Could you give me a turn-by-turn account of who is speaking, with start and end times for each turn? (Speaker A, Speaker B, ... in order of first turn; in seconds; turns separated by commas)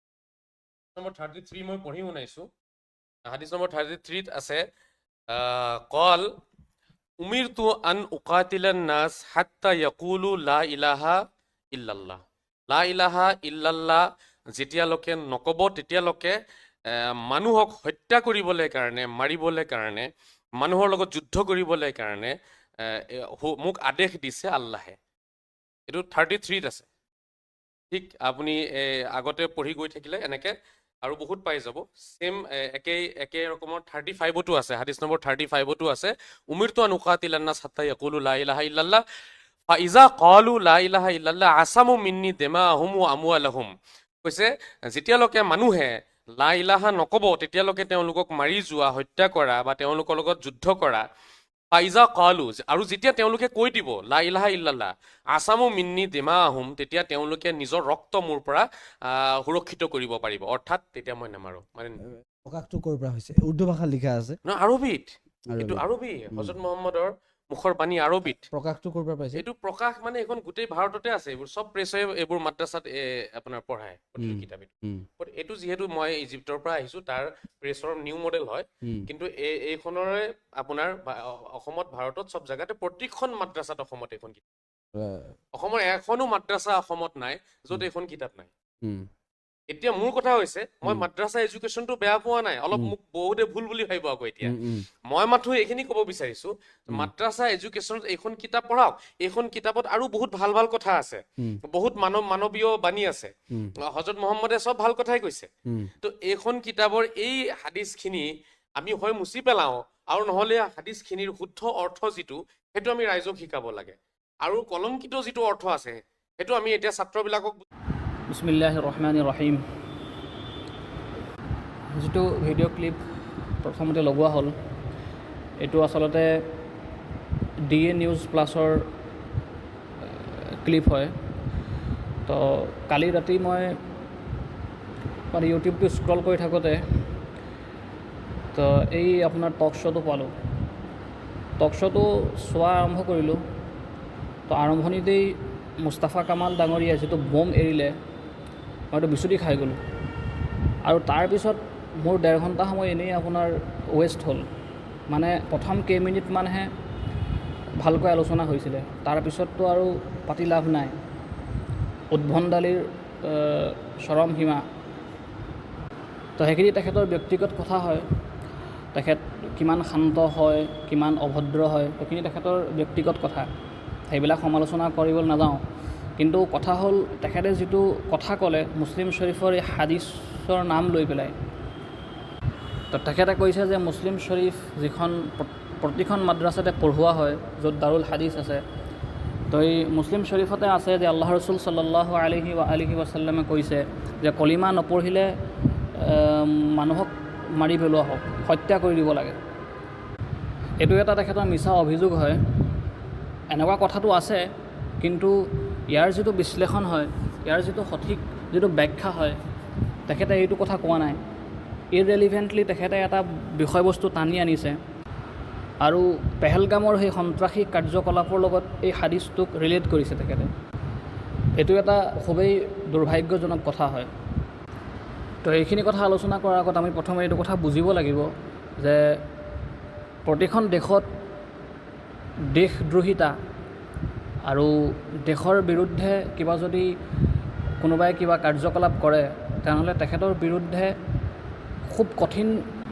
Speaker A: 0.9-2.5, Speaker A: 3.3-4.6, Speaker A: 5.3-6.2, Speaker A: 7.2-11.2, Speaker A: 11.7-14.0, Speaker A: 14.6-16.4, Speaker A: 16.9-20.1, Speaker A: 20.6-22.3, Speaker A: 22.8-25.0, Speaker A: 25.9-26.9, Speaker A: 27.9-30.5, Speaker A: 31.0-39.0, Speaker A: 39.7-43.7, Speaker A: 44.2-51.0, Speaker A: 51.7-62.0, Speaker B: 62.4-64.4, Speaker A: 64.5-68.5, Speaker B: 65.5-66.5, Speaker B: 68.4-69.4, Speaker A: 69.3-84.4, Speaker B: 74.2-75.0, Speaker B: 84.9-85.3, Speaker A: 85.5-88.5, Speaker B: 88.8-89.1, Speaker A: 89.7-94.5, Speaker B: 94.4-94.8, Speaker A: 95.1-103.3, Speaker A: 103.8-105.5, Speaker A: 106.0-117.6, Speaker C: 118.3-119.6, Speaker C: 121.9-123.0, Speaker C: 123.6-124.5, Speaker C: 125.6-126.3, Speaker C: 127.7-128.9, Speaker C: 130.4-131.1, Speaker C: 132.2-133.8, Speaker C: 135.3-136.8, Speaker C: 138.5-140.3, Speaker C: 141.6-143.4, Speaker C: 144.5-147.9, Speaker C: 148.9-149.8, Speaker C: 150.8-154.4, Speaker C: 155.1-156.7, Speaker C: 157.8-160.9, Speaker C: 162.1-164.6, Speaker C: 166.4-168.0, Speaker C: 168.9-173.5, Speaker C: 174.1-175.6, Speaker C: 176.2-181.3, Speaker C: 182.9-188.6, Speaker C: 189.5-195.3, Speaker C: 195.9-199.4, Speaker C: 200.8-202.4, Speaker C: 203.5-204.5, Speaker C: 205.0-205.4, Speaker C: 205.9-209.4, Speaker C: 210.1-211.2, Speaker C: 211.9-214.8, Speaker C: 215.8-220.5, Speaker C: 221.6-224.1, Speaker C: 225.4-228.3, Speaker C: 228.8-229.1, Speaker C: 230.2-231.1, Speaker C: 232.5-233.3, Speaker C: 234.5-234.7, Speaker C: 235.2-236.9, Speaker C: 237.8-240.9, Speaker C: 241.8-242.6